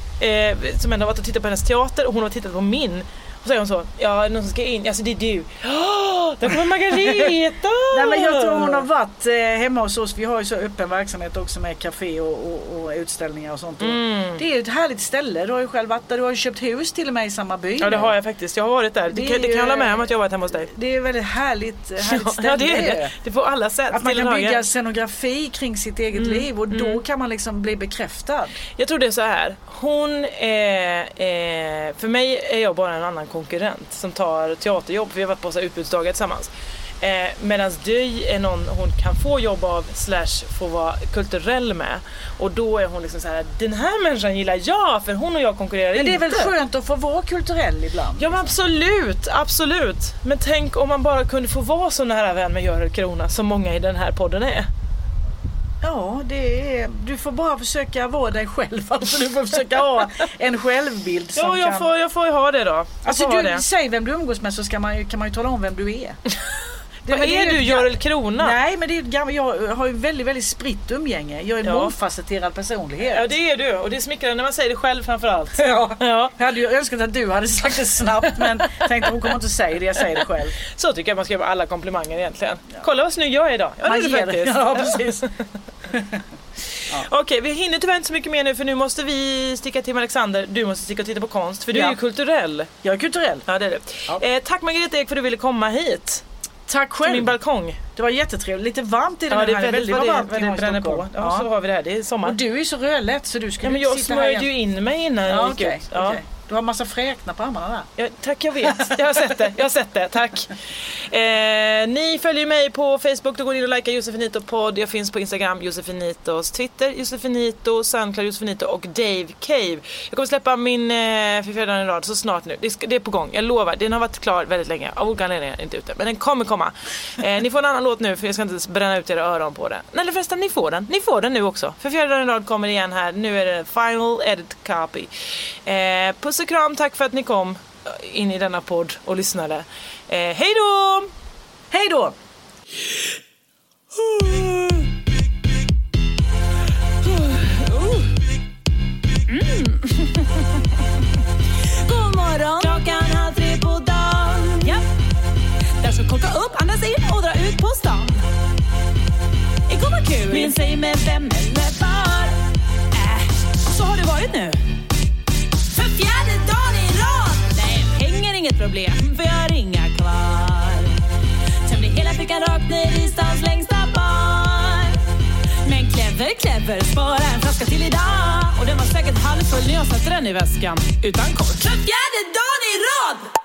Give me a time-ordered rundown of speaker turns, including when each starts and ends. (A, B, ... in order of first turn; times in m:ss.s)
0:00.2-0:08.9 A
0:07.0-0:07.3 B
0:07.9-0:18.1 B
0:13.8-0:14.4 A
0:17.8-0:20.7 A
0:19.1-0:20.1 B
0:20.6-0:23.1 B
0:22.1-0:24.6 A
0:23.9-0:28.6 B
0:26.1-0:27.0 A
0:28.8-0:36.5 A
0:37.0-0:46.5 A
0:45.9-0:48.5 B
0:48.2-0:54.7 A
0:55.8-1:01.9 B
1:01.4-1:03.6 A
1:03.0-1:06.2 B
1:07.0-1:13.3 B
1:07.1-1:08.6 A
1:11.6-1:11.9 A
1:13.0-1:16.3 A
1:15.6-1:20.6 B
1:18.3-1:19.2 A
1:20.7-1:25.3 A
1:23.8-1:25.3 B
1:25.9-1:26.2 B
1:26.7-1:32.7 A
1:31.7-1:32.0 B
1:32.8-1:33.4 B
1:33.5-1:36.2 A
1:36.7-1:37.3 B
1:37.0-1:37.8 A
1:38.0-1:41.5 B
1:39.3-1:42.4 A
1:42.2-1:44.5 B
1:43.6-1:46.2 A
1:45.3-1:47.9 B
1:48.0-2:15.1 A
1:48.6-1:49.2 B
2:15.6-2:21.1 A
2:21.7-2:22.1 B
2:27.1-2:28.1 A
2:29.4-2:29.7 C
2:31.8-2:34.8 C
2:35.8-2:38.2 C
2:39.7-2:42.4 C
2:42.9-2:44.6 C
2:45.7-2:51.0 C
2:51.6-2:55.0 C
2:55.6-3:03.3 C